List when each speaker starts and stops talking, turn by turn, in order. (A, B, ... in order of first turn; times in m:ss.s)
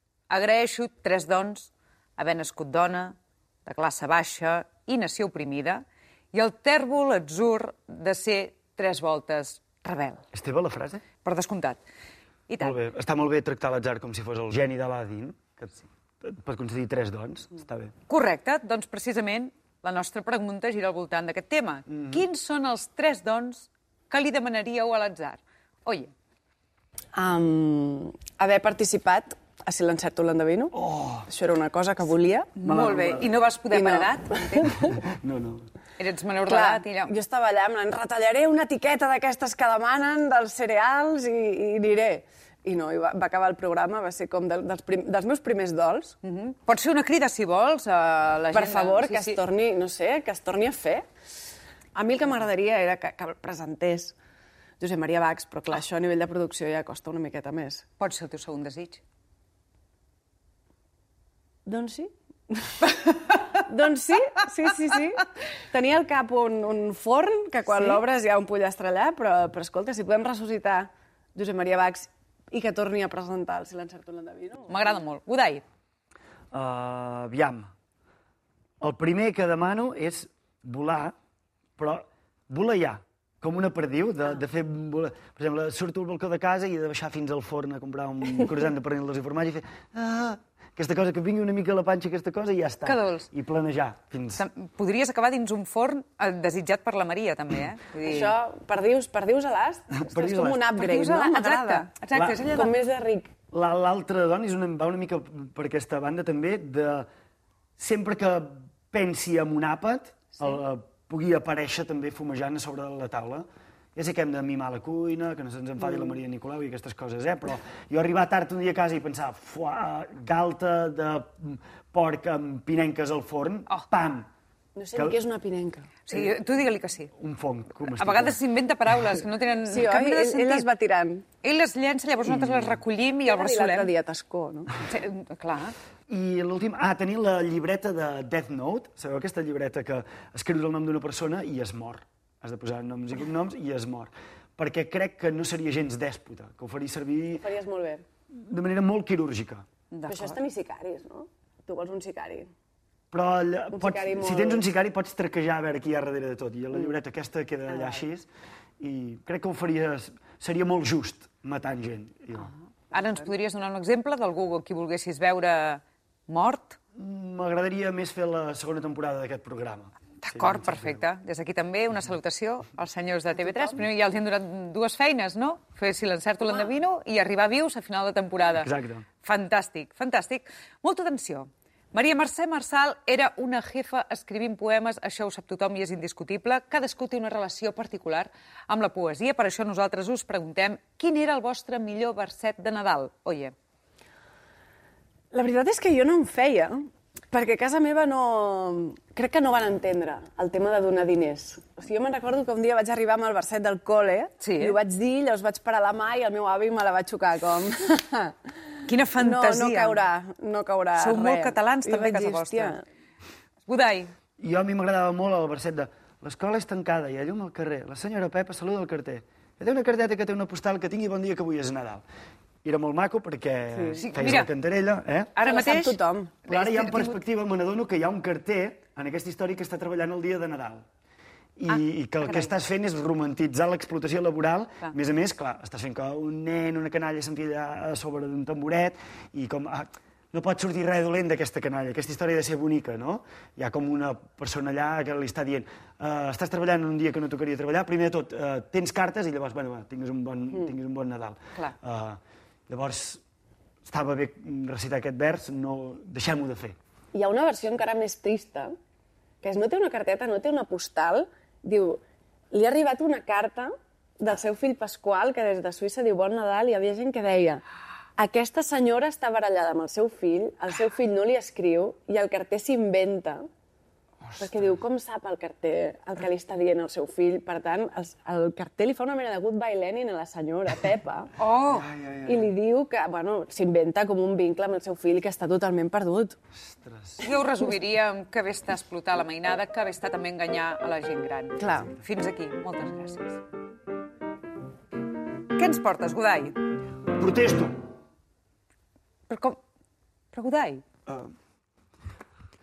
0:00.3-0:10.2 A
0:10.3-0:11.0 B
0:11.2-0:11.8 A
0:12.5-0:12.8 A
0:12.6-0:17.9 B
0:18.1-0:26.1 A
0:21.9-0:22.2 B
0:27.1-0:32.5 C
0:30.7-0:31.3 B
0:32.6-0:34.8 A
0:32.6-0:33.3 B
0:33.7-0:34.8 C
0:35.0-0:35.6 B
0:36.0-0:37.1 A
0:36.4-0:46.2 C
0:46.2-0:49.4 A
0:48.5-0:51.0 C
0:51.9-0:54.1 C
0:54.8-0:57.8 C
0:58.0-0:59.0 A
1:01.6-1:14.7 C
1:14.7-1:15.6 A
1:16.5-1:17.7 B
1:18.8-1:21.1 B
1:21.8-1:34.4 B
1:32.8-1:33.3 A
1:34.4-1:38.3 A
1:38.0-1:41.9 C
1:39.9-1:40.7 B
1:40.7-1:42.8 A
1:42.1-1:42.4 B
1:42.4-1:43.3 C
1:43.5-1:47.1 B
1:47.8-2:04.3 B
2:04.7-2:05.9 C
2:04.9-2:05.2 B
2:06.0-2:07.1 A
2:07.2-2:08.4 B
2:07.9-2:10.7 A
2:09.7-2:11.2 C
2:11.4-2:13.9 A
2:12.2-2:12.8 B
2:13.2-2:14.7 C
2:14.8-2:15.7 A
2:16.1-2:27.4 B
2:27.4-2:28.0 C
2:28.3-2:29.6 B
2:29.9-2:30.4 A
2:30.1-2:32.5 C
2:33.1-2:38.3 B
2:33.7-2:34.7 C
2:37.7-2:38.0 C
2:38.8-2:42.5 B
2:42.9-2:46.8 A
2:47.0-2:51.0 B
2:50.2-2:58.7 A
2:58.6-2:59.0 B
2:59.2-3:13.5 A
3:15.3-3:28.3 C
3:24.4-3:24.8 A
3:28.8-3:30.0 A
3:29.2-3:32.8 C
3:31.0-3:32.8 A
3:33.6-3:34.1 A
3:34.4-3:42.0 B
3:42.6-3:45.3 B
3:43.7-3:44.0 C
3:44.0-3:44.5 A
3:45.4-3:47.2 A
3:45.4-3:46.4 C
3:46.4-3:50.8 B
3:51.6-4:13.2 B
3:51.7-3:52.5 A
4:13.8-4:16.8 B
4:17.1-4:18.7 C
4:19.4-4:22.0 C
4:22.5-4:27.6 C
4:28.2-4:33.4 C
4:34.2-4:34.7 B
4:34.4-4:41.3 C
4:41.4-4:41.9 A
4:41.7-4:42.5 B
4:42.2-4:46.4 C
4:46.6-4:47.2 B
4:47.2-4:53.4 A
4:51.6-4:51.9 C
4:55.5-4:56.6 A
4:57.2-4:57.7 B
4:59.3-4:59.6 A
5:00.3-5:00.8 A
5:01.1-5:01.3 B